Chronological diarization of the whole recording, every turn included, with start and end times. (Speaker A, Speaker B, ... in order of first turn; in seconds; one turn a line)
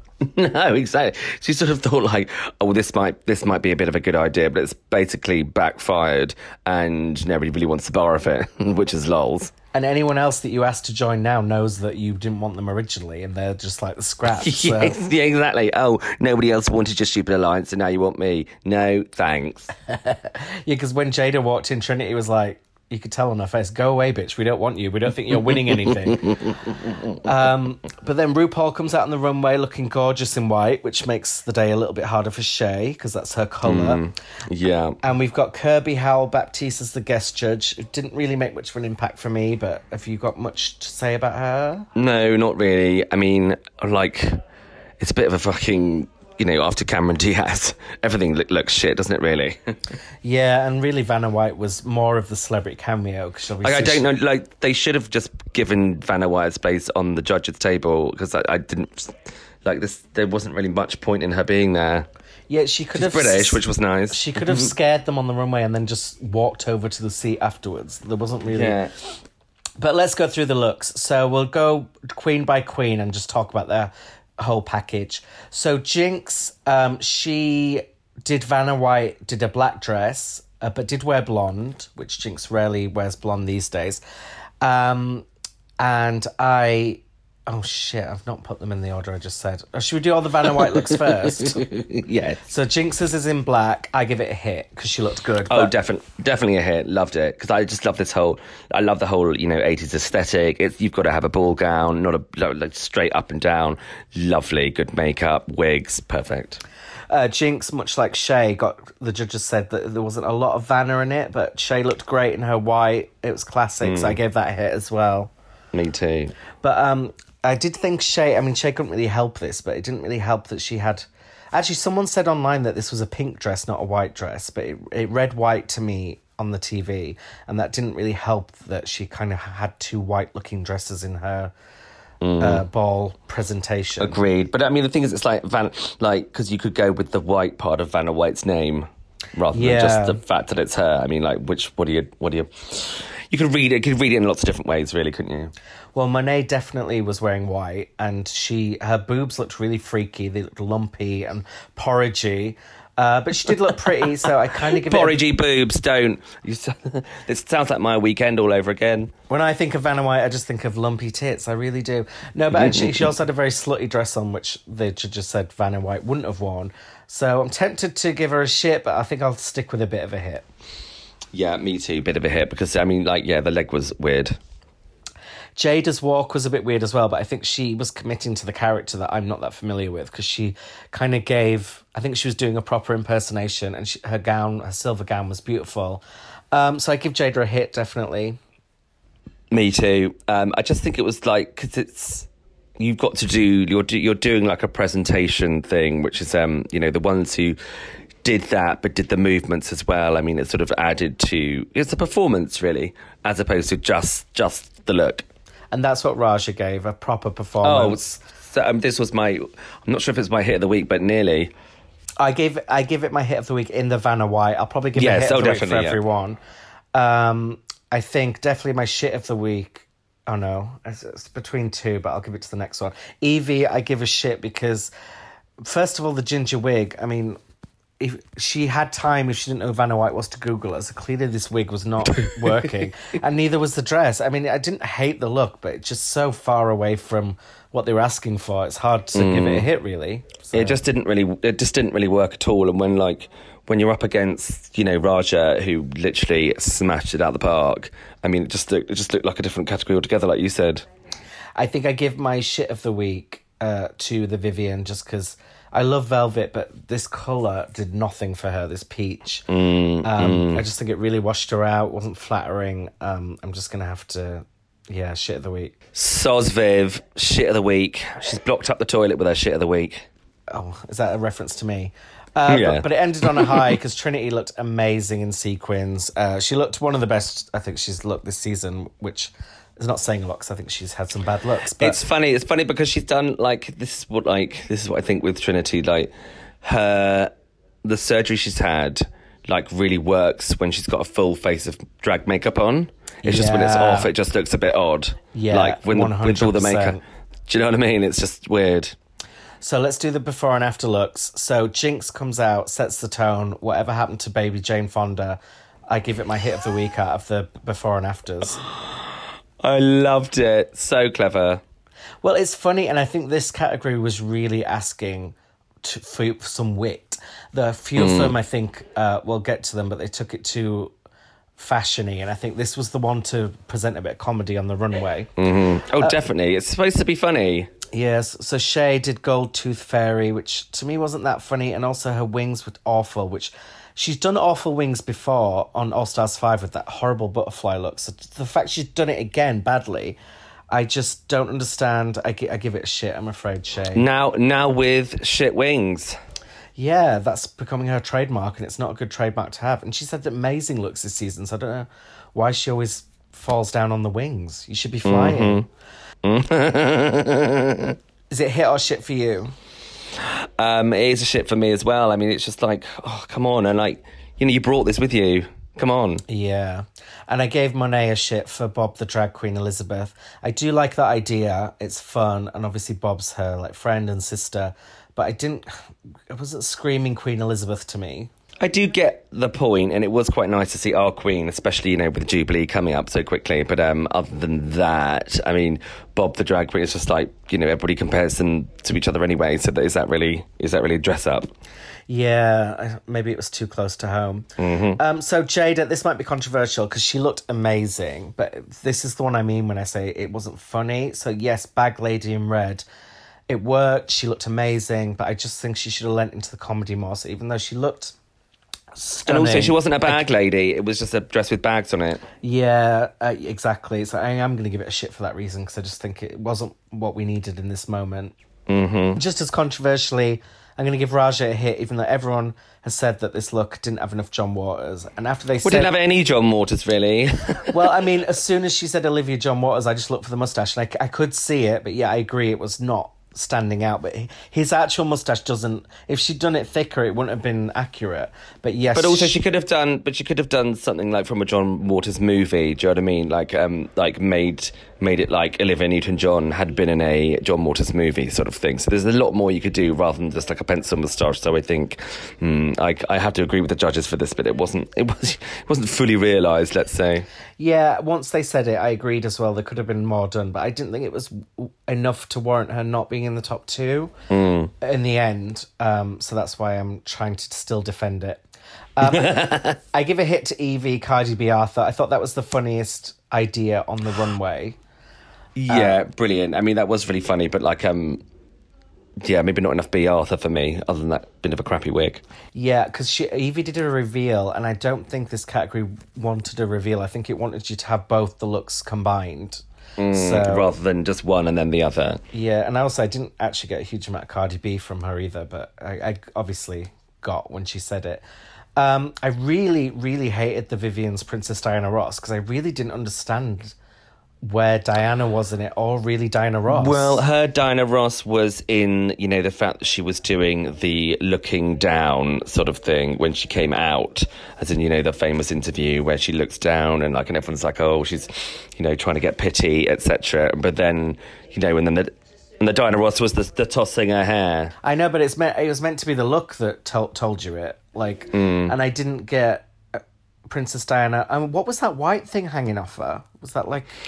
Speaker A: 0.2-9.5
Speaker B: 9.7-15.0
Speaker A: 14.3-19.7
Speaker B: 19.9-26.5
Speaker A: 25.4-27.1
Speaker B: 27.2-34.0
Speaker A: 33.6-35.0
Speaker B: 35.0-41.9
Speaker A: 42.0-44.4
Speaker A: 45.0-49.7
Speaker B: 50.2-54.1
Speaker A: 53.6-62.1
Speaker B: 62.5-68.8
Speaker A: 62.9-64.7
Speaker A: 68.5-68.9
Speaker B: 69.8-84.0
Speaker B: 84.6-85.2
Speaker B: 85.8-91.6
Speaker A: 90.7-92.4
Speaker B: 92.5-95.7
Speaker A: 95.5-106.6
Speaker B: 107.1-115.3
Speaker A: 113.8-114.2
Speaker A: 115.7-116.3
Speaker B: 116.6-131.5
Speaker A: 132.2-132.6
Speaker B: 132.4-134.2
Speaker A: 134.0-145.5
Speaker B: 139.5-140.2
Speaker B: 145.9-155.2
Speaker A: 154.7-159.1
Speaker B: 159.3-170.4
Speaker A: 162.5-163.1
Speaker A: 171.3-174.4
Speaker B: 175.6-188.4
Speaker A: 189.5-192.3
Speaker A: 192.8-197.6
Speaker A: 198.2-205.2
Speaker B: 205.7-208.2
Speaker A: 207.6-211.5
Speaker B: 212.2-216.4
Speaker A: 214.9-216.0
Speaker B: 216.9-224.9
Speaker B: 225.6-227.4
Speaker B: 228.0-240.8
Speaker A: 232.2-232.7
Speaker A: 239.1-239.7
Speaker A: 240.5-250.8
Speaker B: 251.6-259.5
Speaker A: 259.5-260.6
Speaker B: 260.0-265.7
Speaker A: 265.9-270.1
Speaker B: 270.5-282.0
Speaker A: 272.5-273.7
Speaker A: 281.8-286.1
Speaker A: 286.6-287.3
Speaker A: 287.8-298.9
Speaker B: 293.2-294.1
Speaker B: 295.3-297.0
Speaker B: 299.6-305.4
Speaker B: 305.9-308.6
Speaker A: 309.6-311.6
Speaker B: 312.2-320.9
Speaker A: 317.9-318.4
Speaker B: 321.6-325.3
Speaker A: 325.4-327.7
Speaker B: 327.9-340.2
Speaker B: 340.7-344.1
Speaker A: 343.9-346.1
Speaker B: 346.8-355.6
Speaker A: 355.0-355.6
Speaker A: 356.2-357.9
Speaker B: 358.3-359.5
Speaker A: 360.2-366.2
Speaker B: 366.3-375.7
Speaker B: 376.3-378.3
Speaker A: 378.6-391.5
Speaker B: 392.1-394.4
Speaker A: 394.6-395.0
Speaker B: 395.0-402.8
Speaker B: 403.5-408.1
Speaker B: 408.9-410.2
Speaker A: 409.2-412.2
Speaker B: 412.4-418.3
Speaker A: 418.7-419.2
Speaker B: 419.1-425.9
Speaker A: 425.6-428.0
Speaker B: 427.7-439.4
Speaker A: 438.9-457.2
Speaker B: 457.6-464.1
Speaker A: 464.3-464.7
Speaker B: 464.8-468.4
Speaker B: 469.0-474.8
Speaker A: 469.0-469.8
Speaker A: 475.6-478.2
Speaker B: 475.7-476.0
Speaker A: 479.2-482.2
Speaker B: 482.5-490.7
Speaker A: 490.0-492.2
Speaker B: 492.3-498.2
Speaker B: 498.8-503.8
Speaker B: 504.4-507.2
Speaker A: 506.7-524.7
Speaker B: 524.8-533.9
Speaker A: 528.3-528.7